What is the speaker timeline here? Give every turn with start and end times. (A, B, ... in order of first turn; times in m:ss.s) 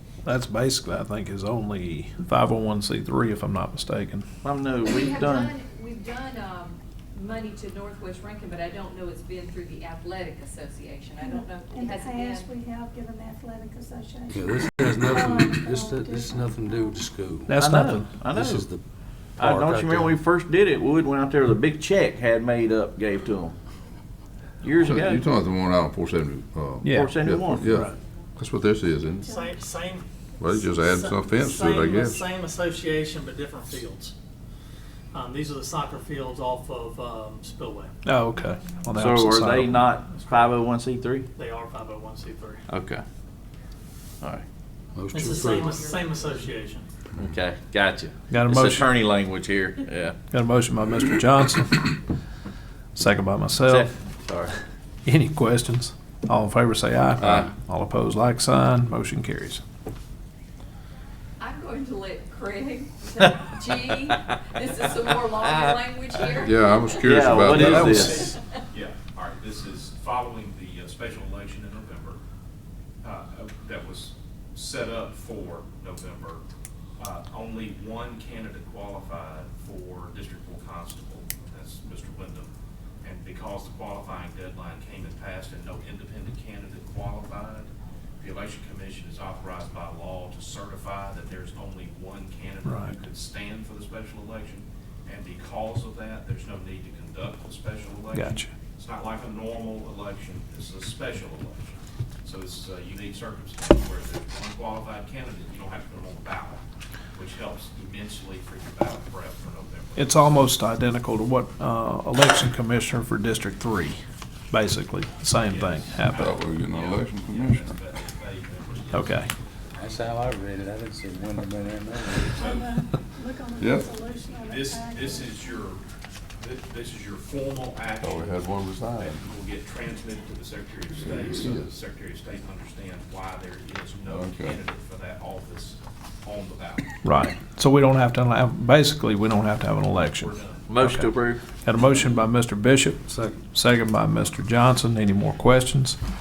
0:00.2-0:04.3 A
0:04.4-0:05.5 B
0:04.8-0:12.5 C
0:11.2-0:17.0 D
0:14.3-0:17.6 E
0:17.4-0:18.2 A
0:17.5-0:18.7 B
0:18.2-0:18.8 E
0:19.3-0:23.6 B
0:19.4-0:20.2 E
0:24.6-0:25.2 B
0:24.8-0:29.3 F
0:26.8-0:27.9 A
0:26.9-0:27.7 B
0:29.2-0:29.6 D
0:29.4-0:30.0 G
0:30.4-0:32.2 F
0:30.8-0:34.2 G
0:35.1-0:37.9 G
0:38.0-0:40.0 A
0:39.0-0:41.3 B
0:41.4-0:42.6 G
0:42.7-0:43.0 B
0:45.0-0:45.8 E
0:45.1-0:46.6 C
0:45.2-0:46.9 G
0:47.2-0:50.2 B
0:48.3-0:48.9 A
0:50.3-0:52.0 A
0:53.0-0:53.9 A
0:53.7-0:54.6 B
0:55.0-0:59.6 A
0:57.2-0:57.5 F
1:01.4-1:08.4 C
1:06.4-1:08.2 F
1:07.0-1:08.3 B
1:07.4-1:12.2 H
1:07.6-1:08.1 A
1:13.0-1:16.4 H
1:17.0-1:22.5 H
1:23.0-1:46.6 H
1:32.6-1:33.0 A
1:38.1-1:38.5 A
1:47.1-1:50.4 H
1:50.0-1:56.4 A
1:55.4-1:59.4 H
1:56.1-1:57.7 F
1:58.9-1:59.3 A
1:59.8-2:02.5 E
2:02.2-2:02.7 H
2:02.4-2:05.6 D
2:03.6-2:03.9 F
2:04.3-2:05.8 H
2:06.4-2:16.9 H
2:08.0-2:09.2 F
2:11.0-2:11.7 F
2:14.1-2:14.6 F
2:17.0-2:26.0 A
2:20.1-2:20.7 H
2:20.7-2:21.4 B
2:23.1-2:23.4 E